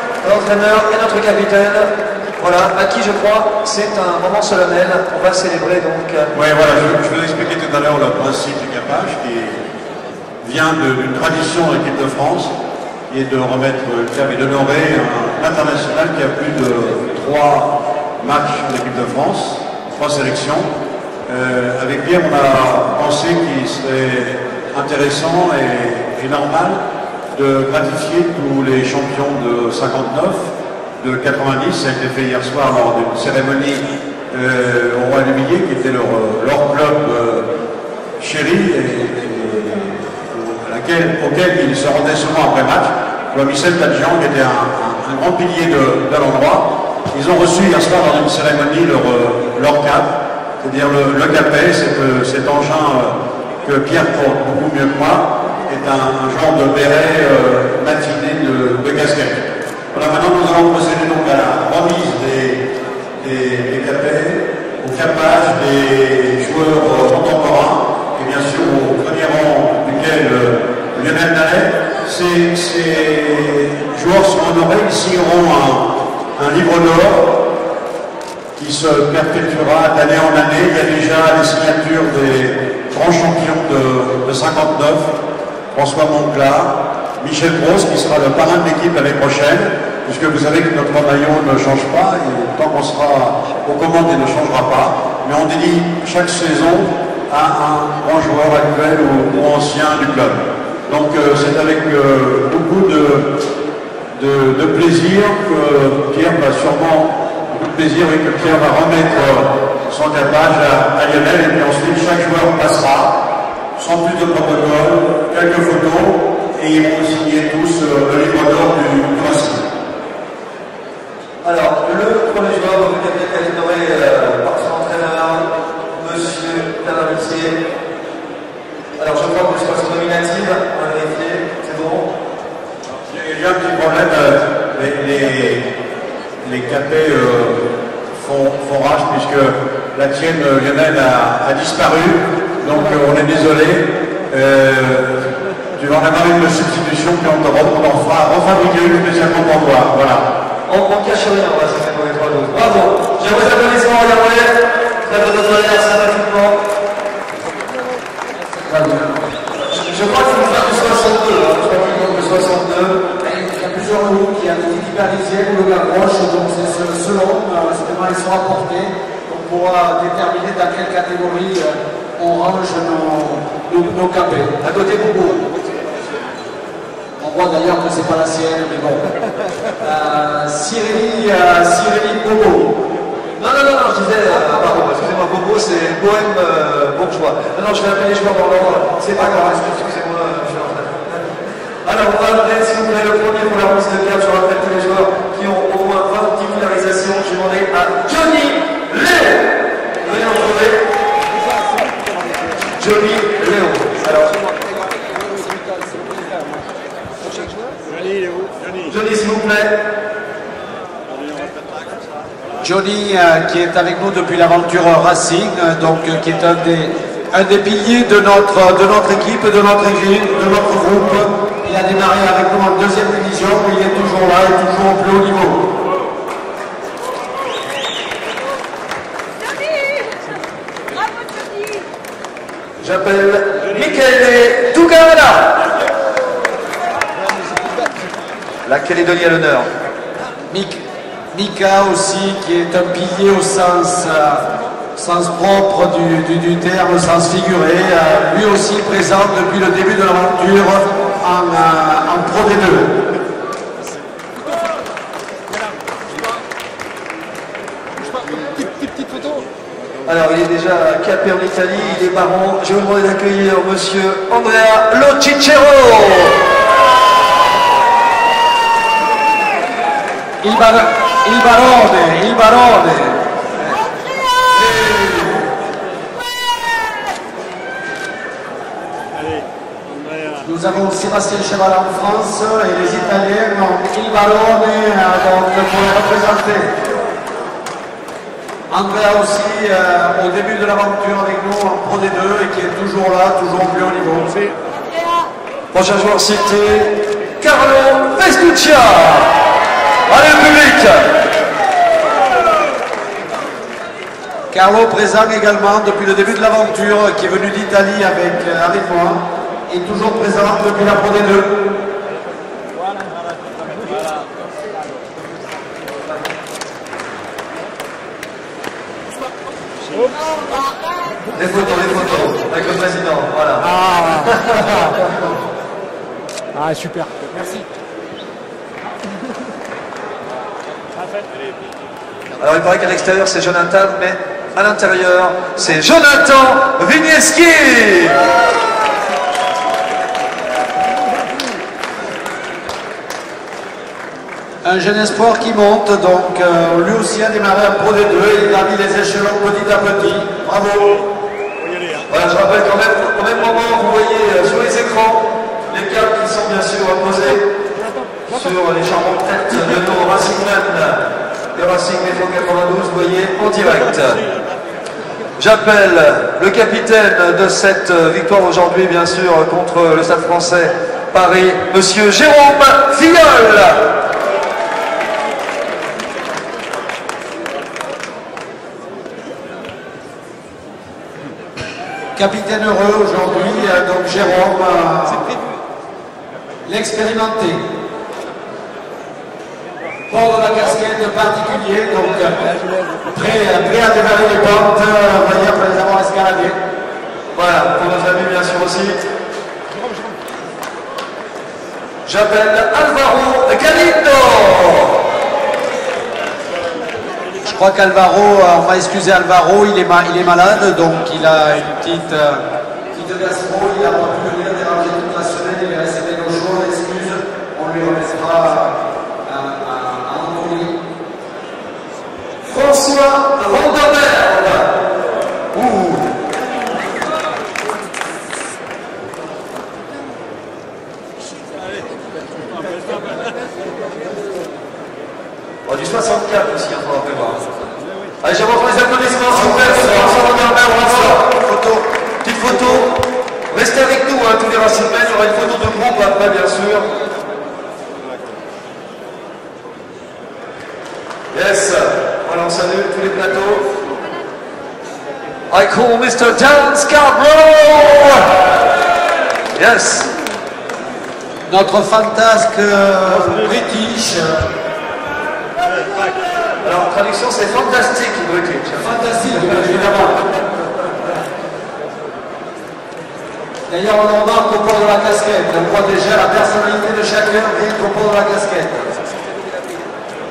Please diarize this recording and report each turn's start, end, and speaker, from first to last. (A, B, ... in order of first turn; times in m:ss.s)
0:00.2-0:06.3 A
0:06.3-0:09.6 B
0:10.4-0:12.5 B
0:13.1-0:20.7 B
0:21.3-0:26.8 B
0:27.3-0:30.5 B
0:31.0-0:37.5 B
0:38.2-1:02.7 B
1:03.2-1:17.3 B
1:18.6-1:25.1 B
1:25.7-1:43.3 B
1:44.2-1:53.2 B
1:53.8-1:59.7 B
2:01.4-2:07.6 A
2:09.0-2:12.1 A
2:13.1-2:15.7 B
2:16.4-2:30.3 B
2:30.7-2:36.6 A
2:38.6-2:39.2 C
2:39.7-2:43.0 A
2:43.2-2:54.5 C
2:54.6-2:55.4 A
2:57.2-2:59.0 C
2:59.8-3:02.7 C
3:03.4-3:11.3 A
3:11.8-3:20.8 A
3:22.8-3:24.4 A
3:28.8-3:29.8 A
3:32.6-3:45.6 C
3:52.8-3:55.7 A
3:58.6-3:59.7 A
4:00.5-4:12.9 C
4:20.0-4:26.4 A
4:30.4-4:33.2 C
4:34.7-4:35.3 A
4:40.4-4:46.7 C
4:48.7-4:54.4 C
4:55.7-4:59.4 A
5:00.1-5:01.1 A
5:04.5-5:11.5 C
5:21.3-5:25.0 A
5:23.6-5:24.3 C
5:26.5-5:27.1 C
5:32.4-5:38.3 A
5:44.6-5:51.0 C
5:52.1-5:57.4 A
5:58.3-6:01.0 A
6:01.5-6:04.2 A
6:05.4-6:13.9 A
6:22.2-6:25.3 C
6:26.6-6:27.6 C
6:30.1-6:32.5 C
6:33.0-6:36.6 C
6:37.3-6:39.0 A
6:42.0-6:45.0 A
6:47.4-7:00.8 C
7:02.5-7:04.8 A
7:05.5-7:06.1 A
7:15.7-7:17.4 A
7:18.2-7:21.3 A
7:19.3-7:21.8 C
7:22.2-7:23.0 A
7:23.5-7:26.9 A
7:31.3-7:33.7 A
7:35.5-7:38.5 A
7:39.5-7:40.1 A
7:41.5-7:44.5 C
7:46.6-7:48.9 A
7:48.8-7:50.2 C
7:53.7-7:58.9 C